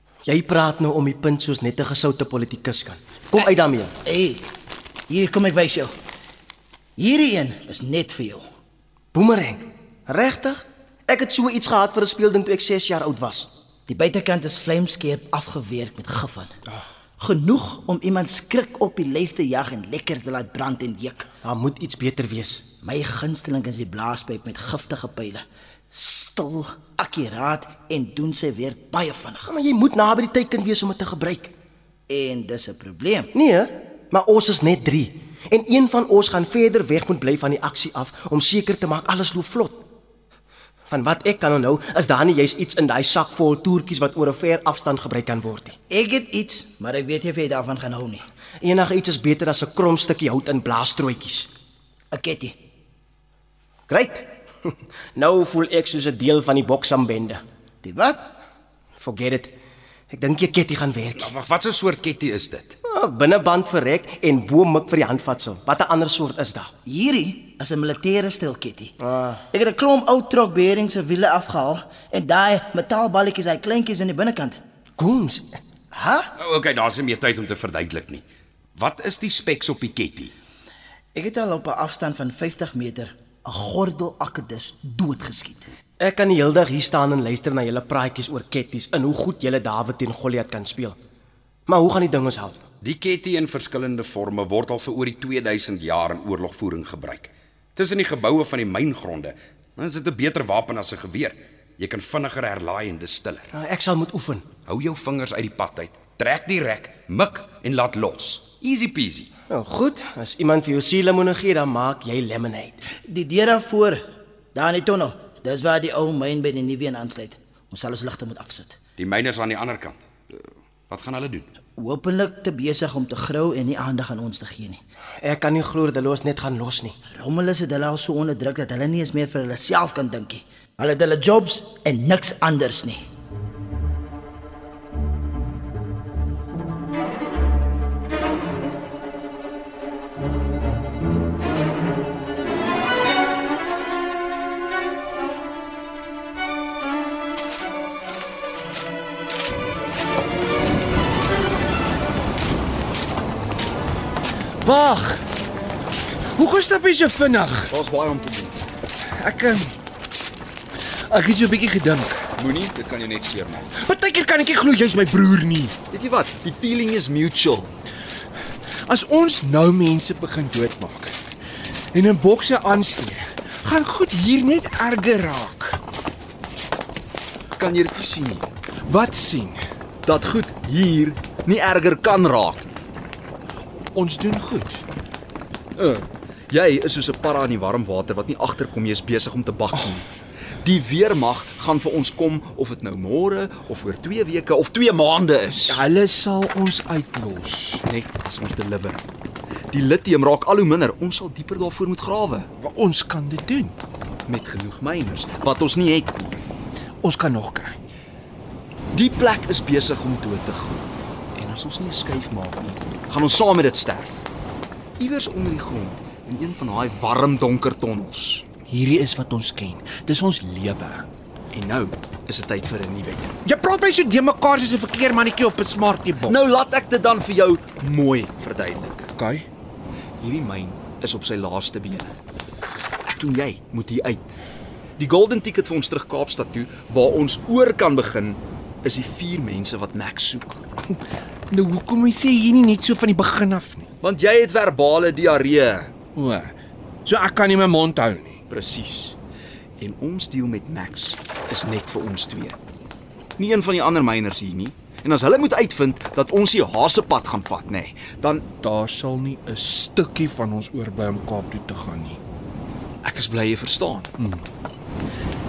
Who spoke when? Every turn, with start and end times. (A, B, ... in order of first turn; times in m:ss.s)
0:00.3-0:03.9 A
0:04.0-0:04.4 B
0:05.1-0:05.9 B
0:07.0-0:08.4 B
0:09.1-0:13.5 A
0:13.9-0:16.5 B
0:17.2-0:21.3 B
0:21.4-0:22.6 A
0:22.8-0:29.5 B
0:29.5-0:31.5 A
0:32.1-0:33.3 B
0:33.3-0:39.8 A
0:40.9-0:45.8 A
0:45.9-0:48.2 B
0:48.6-0:51.5 A
0:52.1-0:52.6 B
0:53.9-0:57.4 A
0:57.8-0:58.2 B
0:59.0-0:59.5 A
1:00.1-1:01.3 A
1:01.2-1:02.7 C
1:02.8-1:06.7 A
1:06.8-1:09.0 B
1:09.1-1:09.4 A
1:09.5-1:14.6 B
1:15.0-1:15.6 A
1:15.9-1:16.3 B
1:16.4-1:18.2 C
1:18.8-1:20.3 C
1:21.1-1:25.7 B
1:26.0-1:31.0 A
1:31.7-1:32.6 A
1:32.8-1:43.5 C
1:43.5-1:44.4 A
1:44.6-1:49.3 C
1:49.5-1:52.9 A
1:53.0-1:54.0 B
1:54.5-1:58.8 B
1:59.0-2:01.5 C
2:01.8-2:04.8 B
2:05.2-2:07.0 A
2:07.1-2:13.0 B
2:34.6-2:35.2 D
2:36.3-2:37.7 D
2:37.7-2:38.6 E
2:39.1-2:39.7 D
2:41.1-2:42.2 D
2:42.4-2:43.7 E
2:43.7-2:45.7 D
2:45.9-2:47.7 E
2:48.9-2:51.1 D
2:51.9-2:55.8 D
2:57.6-2:58.5 E
2:58.9-2:59.6 D
3:00.0-3:02.8 E
3:03.9-3:04.8 D
3:05.8-3:10.1 E
3:10.6-3:15.8 E
3:15.6-3:17.8 D
3:17.8-3:19.0 E
3:19.7-3:22.5 E
3:22.6-3:23.7 D
3:24.2-3:26.4 E
3:27.0-3:27.8 D
3:28.9-3:30.8 E
3:31.3-3:34.2 E
3:35.0-3:38.5 E
3:38.7-3:42.0 D
3:42.3-3:43.3 E
3:43.4-3:46.4 D
3:46.2-3:49.1 E
3:49.2-3:49.5 D
3:50.2-3:52.1 E
3:53.0-3:54.3 E
3:55.0-4:00.6 E
4:01.5-4:03.9 D
4:04.0-4:05.9 E
4:06.2-4:06.5 D
4:07.0-4:08.4 D
4:08.5-4:09.2 E
4:09.8-4:12.6 E
4:13.4-4:18.4 E
4:18.6-4:22.2 D
4:23.0-4:24.1 E